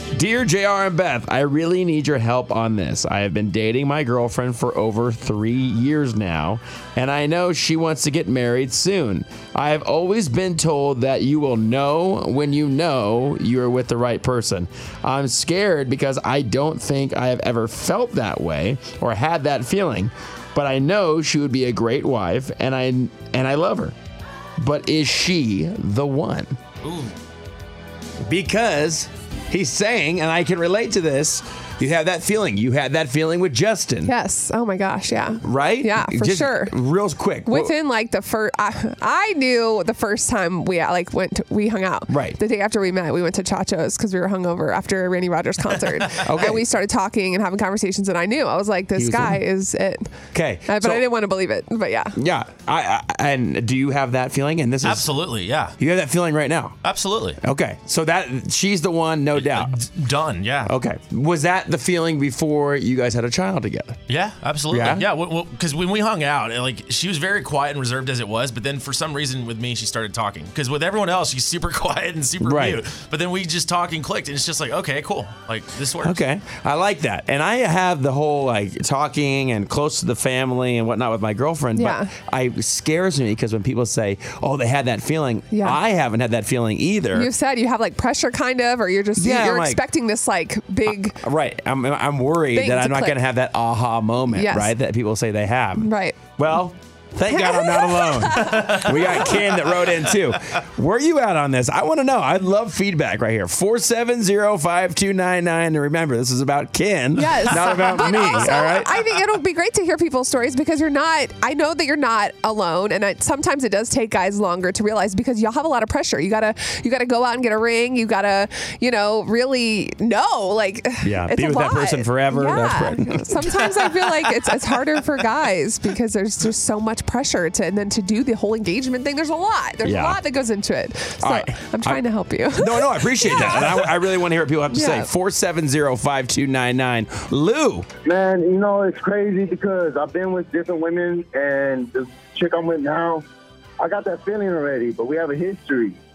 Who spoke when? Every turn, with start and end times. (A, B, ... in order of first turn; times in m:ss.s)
0:00.1-0:23.9 A
0:24.6-0:26.6 A
0:26.8-0:27.1 B
0:28.2-0:34.1 A
0:34.0-0:36.7 C
0:35.4-0:37.7 A
0:37.4-0:50.1 C
0:42.1-0:42.4 A
0:46.2-0:46.6 A
0:49.0-0:49.4 A
0:50.3-0:51.0 A
0:50.6-0:52.2 C
0:52.1-0:55.1 A
0:54.8-0:55.7 B
0:55.8-0:56.8 A
0:56.8-0:57.4 B
0:57.4-0:59.7 A
0:59.4-1:00.7 B
1:00.6-1:04.0 A
1:04.1-1:16.2 B
1:04.7-1:05.0 A
1:12.4-1:12.8 A
1:16.0-1:27.3 A
1:21.7-1:22.1 C
1:25.5-1:25.8 C
1:27.1-1:31.2 C
1:29.2-1:29.8 A
1:30.9-1:48.9 A
1:32.5-1:33.2 C
1:34.3-1:34.7 C
1:35.8-1:36.3 C
1:37.3-1:39.4 C
1:47.2-2:13.9 C
2:01.0-2:04.2 A
2:09.8-2:10.2 A
2:11.2-2:17.9 A
2:14.7-2:15.1 C
2:18.0-2:23.2 D
2:23.8-2:26.0 D